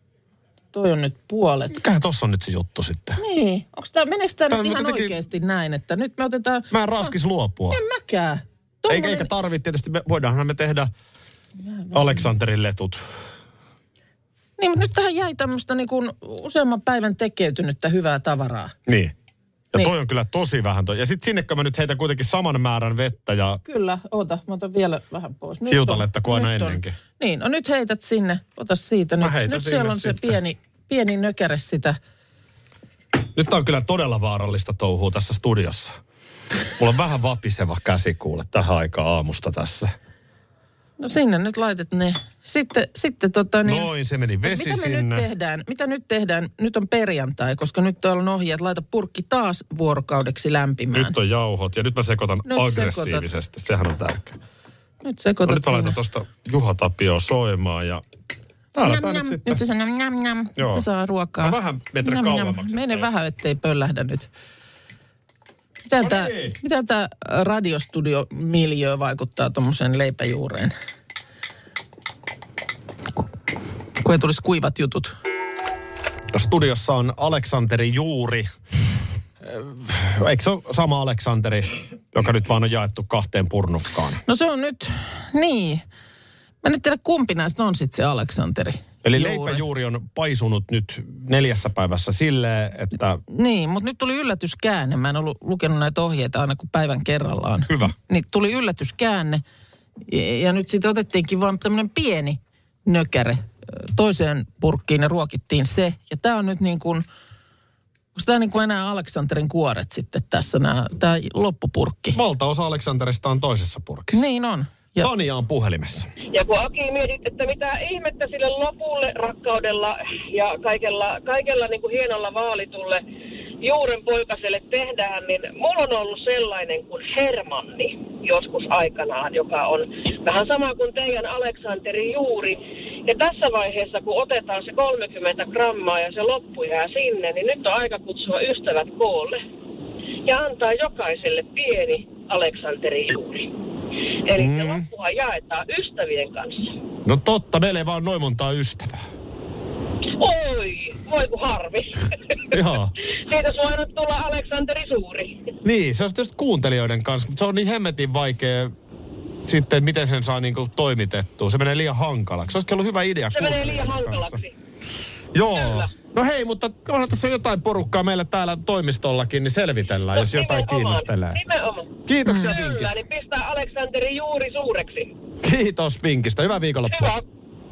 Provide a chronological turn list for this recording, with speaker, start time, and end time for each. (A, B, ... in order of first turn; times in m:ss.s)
0:00.7-0:01.8 A
0:01.7-0:03.2 B
0:03.2-0:07.1 A
0:04.5-0:05.2 B
0:06.7-0:07.8 B
0:07.7-0:09.3 A
0:08.9-0:10.9 B
0:11.9-0:13.0 B
0:14.6-0:18.7 A
0:18.9-0:19.1 B
0:19.7-0:23.6 B
0:23.6-0:32.0 A
0:25.7-0:27.0 B
0:29.2-0:30.4 B
0:33.3-0:35.9 B
0:36.8-0:39.9 B
0:41.0-0:43.9 A
0:43.6-0:45.3 B
0:44.4-0:51.2 A
0:50.9-0:54.4 B
0:52.5-0:53.3 A
0:55.0-0:56.0 A
0:55.5-0:58.0 B
0:58.8-0:59.6 B
0:58.8-1:04.3 A
1:00.6-1:00.8 B
1:01.4-1:03.1 B
1:05.9-1:10.7 A
1:06.0-1:06.6 B
1:14.0-1:15.1 A
1:16.3-1:18.5 B
1:19.4-1:24.2 B
1:24.2-1:25.8 A
1:26.6-1:29.6 A
1:29.0-1:33.2 B
1:33.3-1:39.4 A
1:40.1-1:47.0 A
1:48.1-1:52.2 A
1:52.1-1:54.2 B
1:54.1-1:55.1 A
1:55.0-1:56.1 B
1:56.3-2:03.0 C
2:03.6-2:19.4 C
2:20.2-2:23.5 C
2:24.2-2:26.7 C
2:24.4-2:24.8 B
2:27.1-2:29.1 B
2:30.2-2:32.5 C
2:32.5-2:32.9 B
2:33.2-2:35.4 C
2:35.6-2:38.8 B
2:39.4-2:44.4 B
2:43.3-2:44.5 C
2:45.3-2:51.4 B
2:45.6-2:45.9 C
2:50.2-2:55.1 C
2:52.1-2:52.9 B
2:52.2-2:52.5 A
2:55.4-2:57.1 B
2:56.9-2:57.2 C